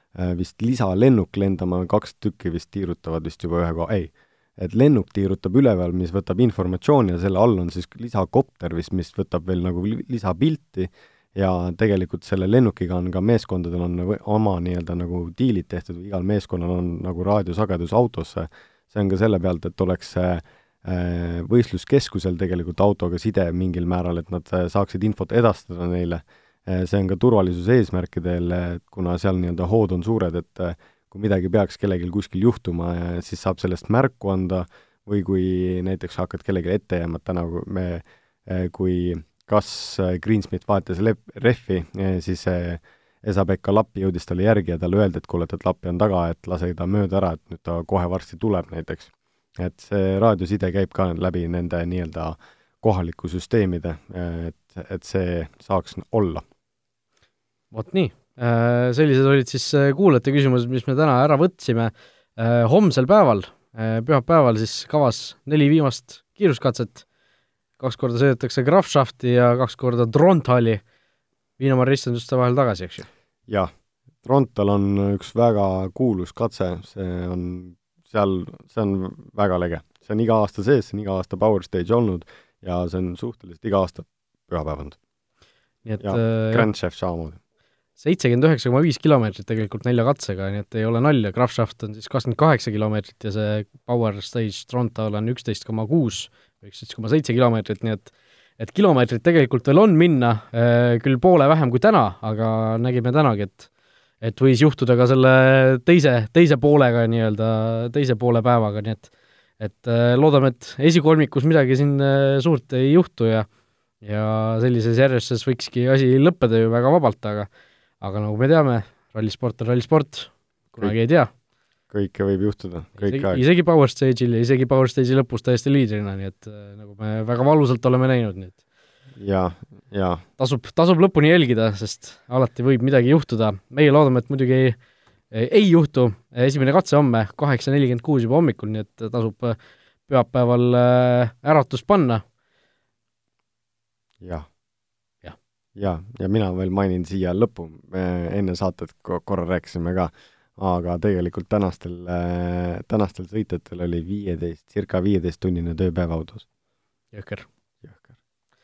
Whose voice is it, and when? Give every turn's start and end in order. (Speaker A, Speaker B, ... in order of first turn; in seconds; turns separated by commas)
Speaker A: 0.1-56.4, Speaker B: 57.7-67.0, Speaker B: 67.8-70.8, Speaker B: 71.6-73.1, Speaker A: 74.2-85.0, Speaker B: 85.8-86.7, Speaker A: 86.0-87.4, Speaker B: 88.0-103.7, Speaker B: 104.2-113.5, Speaker B: 114.0-117.5, Speaker B: 118.0-121.3, Speaker A: 121.9-123.4, Speaker B: 123.0-128.6, Speaker A: 129.2-130.2, Speaker B: 130.4-134.8, Speaker B: 135.3-139.6, Speaker B: 140.1-142.2, Speaker A: 144.2-144.5, Speaker A: 145.8-156.4, Speaker B: 157.1-157.5, Speaker A: 157.8-158.1